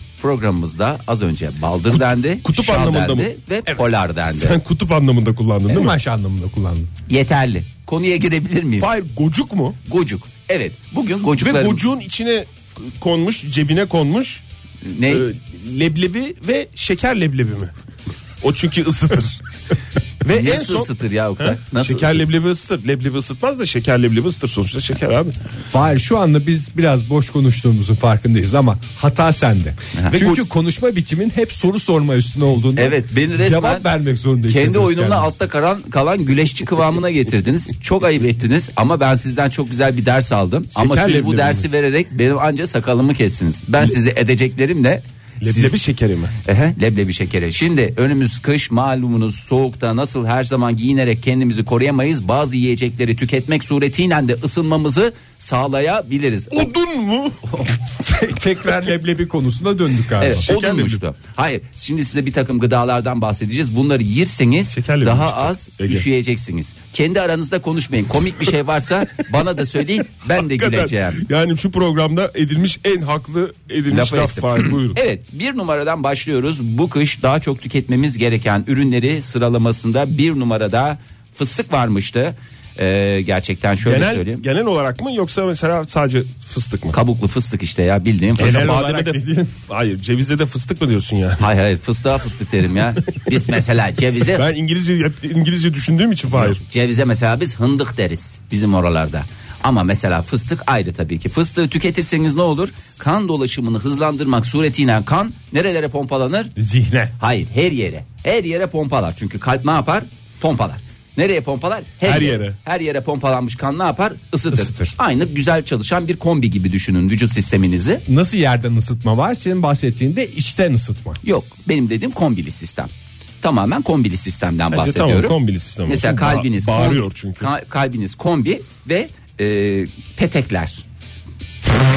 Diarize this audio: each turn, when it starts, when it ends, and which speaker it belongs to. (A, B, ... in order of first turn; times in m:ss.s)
0:00.2-0:04.6 A
0:01.9-0:03.3 B
0:04.2-0:06.0 B
0:05.7-0:06.9 C
0:07.1-0:08.9 A
0:08.8-0:09.8 B
0:09.8-0:11.8 A
0:11.3-0:14.4 B
0:14.8-0:15.2 A
0:15.1-0:17.7 B
0:18.4-0:19.4 B
0:20.2-0:25.3 B
0:20.3-0:22.2 A
0:25.7-0:35.4 C
0:30.0-0:30.2 A
0:32.8-0:33.9 A
0:34.5-0:45.7 A
0:40.7-0:41.7 B
0:45.4-0:46.3 B
0:46.4-0:56.7 A
0:56.5-0:57.4 B
0:57.8-1:00.4 C
1:00.2-1:11.2 A
1:00.4-1:01.0 B
1:04.7-1:06.0 B
1:10.4-1:15.0 B
1:13.9-1:24.4 A
1:23.8-1:27.0 B
1:26.9-1:28.7 A
1:28.4-1:29.5 C
1:28.4-1:31.4 B
1:31.4-1:34.4 A
1:34.3-1:36.6 B
1:36.3-1:46.5 A
1:46.6-1:47.1 C
1:47.2-1:58.0 A
1:52.0-1:52.6 B
1:54.5-1:54.9 C
1:58.1-2:01.2 C
2:01.2-2:02.9 A
2:03.4-2:05.3 A
2:04.7-2:07.5 B
2:05.8-2:10.8 A